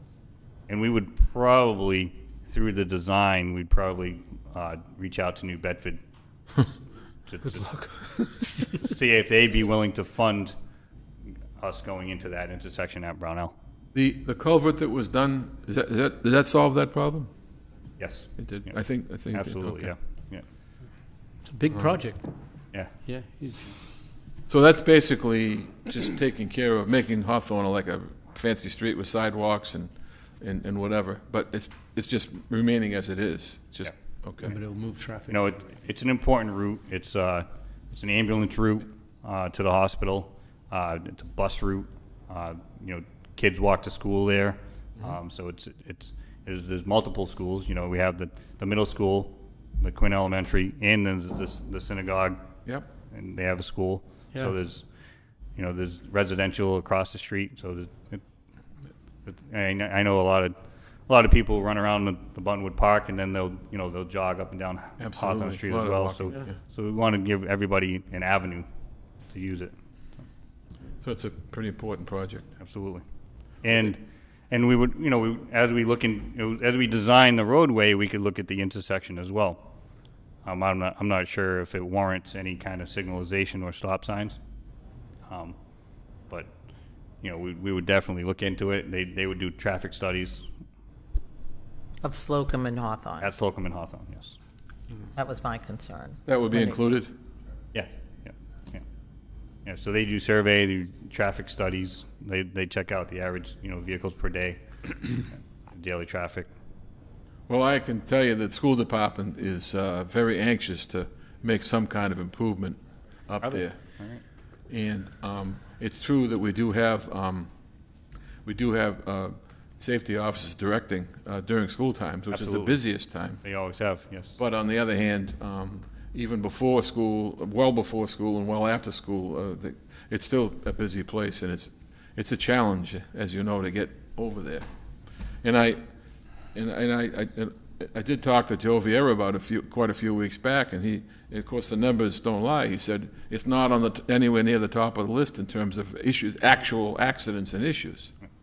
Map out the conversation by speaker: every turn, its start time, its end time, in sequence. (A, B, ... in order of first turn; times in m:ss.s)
0:00.7-0:06.0 A
0:07.3-0:07.7 A
0:07.4-0:08.6 B
0:08.8-0:10.5 A
0:11.6-0:13.5 A
0:13.9-0:17.3 C
0:18.0-0:18.8 A
0:18.4-0:19.9 C
0:19.3-0:20.4 A
0:21.4-0:22.3 B
0:21.7-0:22.0 C
0:22.9-0:23.8 B
0:24.5-0:34.5 C
0:34.4-0:35.5 B
0:35.3-0:52.4 A
0:53.1-0:54.8 A
0:55.6-0:58.2 A
0:59.2-1:00.5 A
1:01.1-1:08.7 A
1:05.0-1:06.5 C
1:09.3-1:09.7 A
1:11.0-1:12.5 C
1:12.6-1:13.0 A
1:13.6-1:19.7 A
1:20.4-1:24.4 A
1:25.3-1:25.6 A
1:27.2-1:30.4 A
1:32.0-1:33.3 D
1:33.2-1:34.4 A
1:35.2-1:36.8 D
1:36.2-1:37.1 C
1:37.7-1:38.8 A
1:39.6-1:44.6 A
1:45.7-1:46.5 A
1:47.5-1:53.8 C
1:53.4-1:54.2 A
1:54.7-1:57.5 C
1:58.4-2:03.4 C
2:02.3-2:02.8 A
2:03.4-2:04.4 A
2:04.4-2:14.7 C
2:15.4-2:15.8 C
2:16.5-2:28.1 C